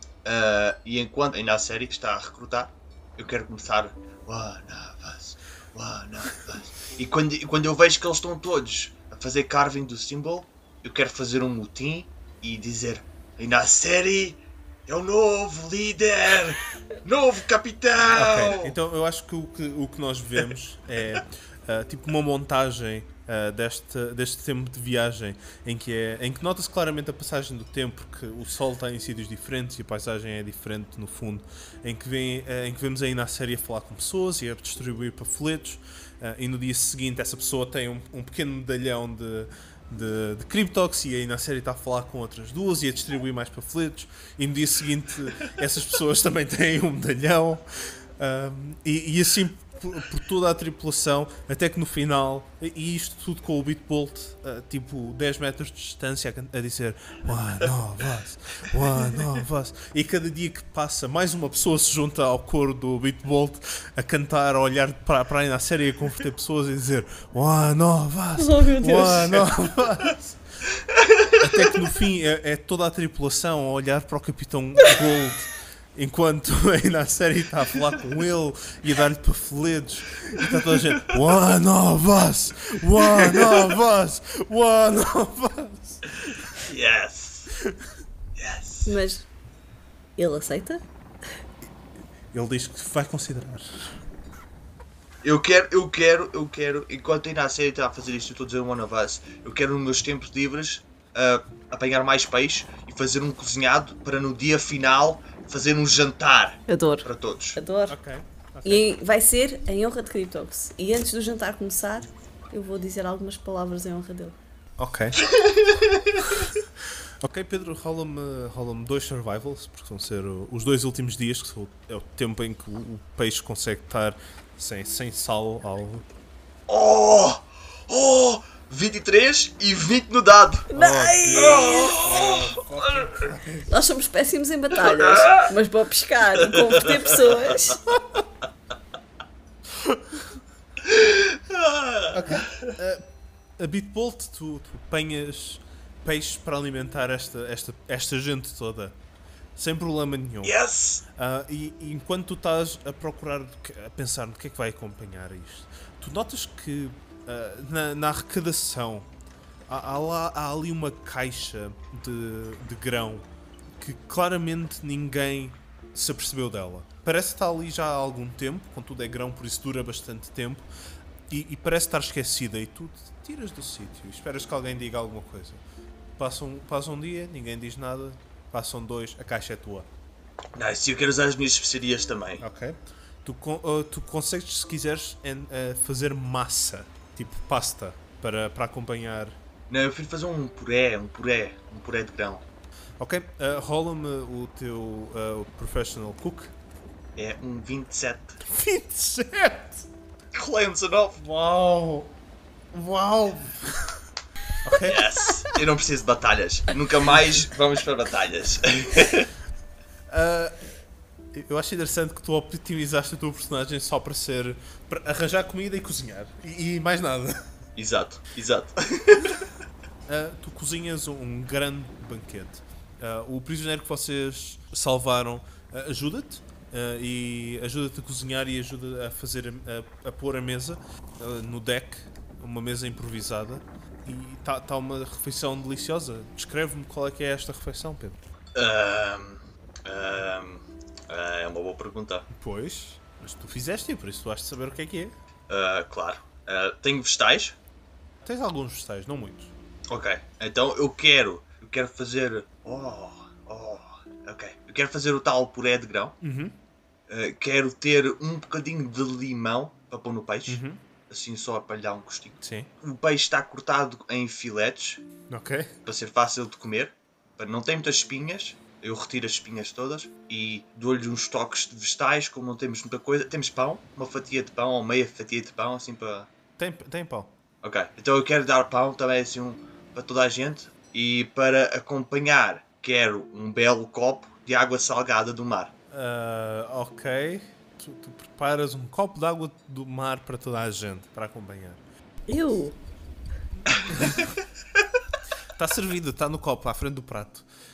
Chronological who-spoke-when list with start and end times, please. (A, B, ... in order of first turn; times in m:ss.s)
0:00.2-0:18.8 A
0:18.1-1:10.4 B
1:08.4-1:09.5 C
1:11.0-1:11.4 A
1:11.4-1:26.4 B
1:23.1-1:23.6 A
1:26.5-1:27.5 A
1:28.4-1:29.0 A
1:28.8-1:29.3 C
1:30.2-1:30.8 C
1:32.3-1:34.0 B
1:35.2-1:47.6 A
1:46.7-1:48.0 C
1:47.9-1:48.9 B
1:48.6-1:54.4 C
1:54.8-1:55.2 B
1:55.3-1:56.4 A
1:57.2-2:06.1 B
2:06.7-2:10.7 A
2:10.7-2:12.0 C
2:10.8-2:13.7 B
2:11.3-2:13.2 A
2:13.7-2:17.8 C
2:16.5-2:17.3 A
2:19.7-2:20.2 B
2:20.8-2:22.7 A
2:22.1-2:23.1 B
2:23.6-2:29.0 B
2:29.6-2:30.6 B
2:30.4-2:31.0 A
2:31.2-2:39.1 B
2:39.7-2:43.3 B
2:43.8-2:50.7 B
2:51.3-2:55.6 B
2:56.2-2:59.9 B
3:00.6-3:02.4 A
3:02.4-3:09.4 B
3:09.7-3:12.4 A
3:13.0-3:16.5 B
3:17.2-3:18.4 A
3:18.4-3:19.9 B
3:20.3-3:21.2 A
3:21.2-3:22.2 B
3:22.7-3:24.0 B
3:24.6-3:25.4 B
3:24.8-3:29.3 A
3:30.1-3:30.6 B
3:31.3-3:37.5 B
3:37.8-3:39.5 A
3:40.1-3:58.2 B
3:58.6-4:02.3 A
4:02.3-4:05.2 B
4:05.5-4:07.6 A
4:08.2-4:09.5 B
4:09.9-4:16.2 A
4:16.2-4:16.6 B
4:17.1-4:25.0 A
4:20.5-4:20.8 B
4:22.4-4:22.7 B
4:25.3-4:25.7 B
4:25.8-4:36.3 A
4:36.6-4:37.3 B
4:37.6-4:45.7 A
4:45.9-4:51.8 B
4:52.3-4:52.8 C
4:54.0-4:54.2 B
4:55.6-4:57.5 B